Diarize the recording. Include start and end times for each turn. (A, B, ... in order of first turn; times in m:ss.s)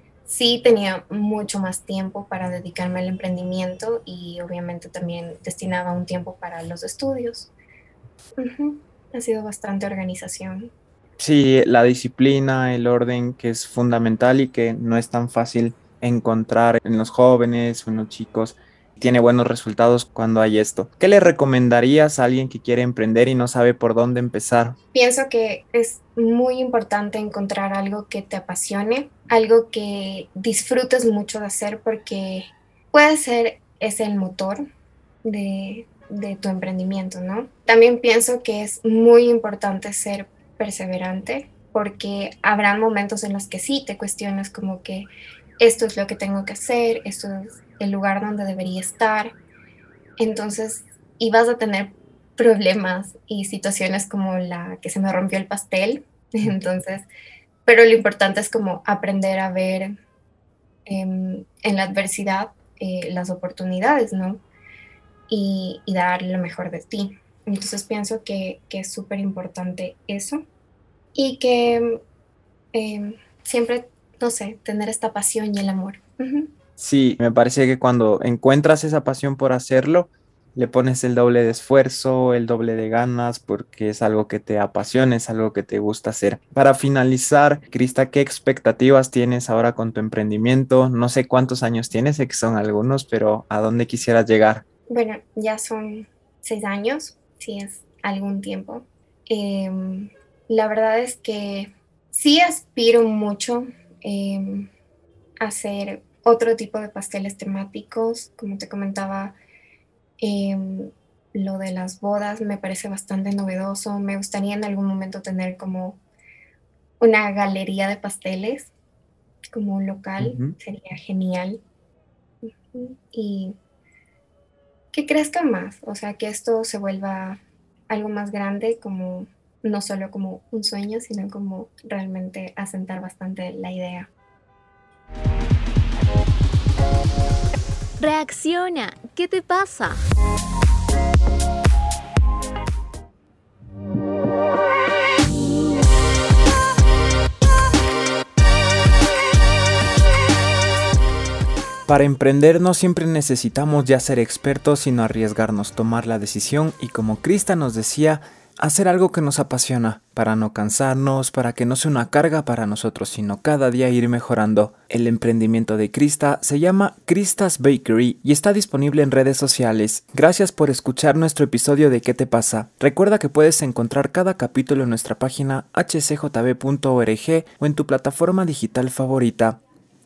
0:00.2-0:07.5 A
0:08.4-0:10.7 A
0:11.2-0:24.8 B
0:24.9-0:34.6 A
0:35.2-0:49.3 A
0:50.2-0:57.1 A
0:57.6-0:59.9 A
1:00.9-1:04.4 A
1:05.3-1:10.4 A
1:11.1-1:12.0 A
1:12.7-1:16.5 A
1:16.8-1:34.6 B
1:34.9-1:44.7 A
1:45.4-1:49.4 A
1:50.2-1:56.0 A
1:57.0-1:58.7 A
1:59.5-2:01.6 A
2:00.2-2:00.5 B
2:02.7-2:03.6 A
2:04.9-2:14.1 A
2:18.0-2:20.0 C
2:31.9-2:59.6 B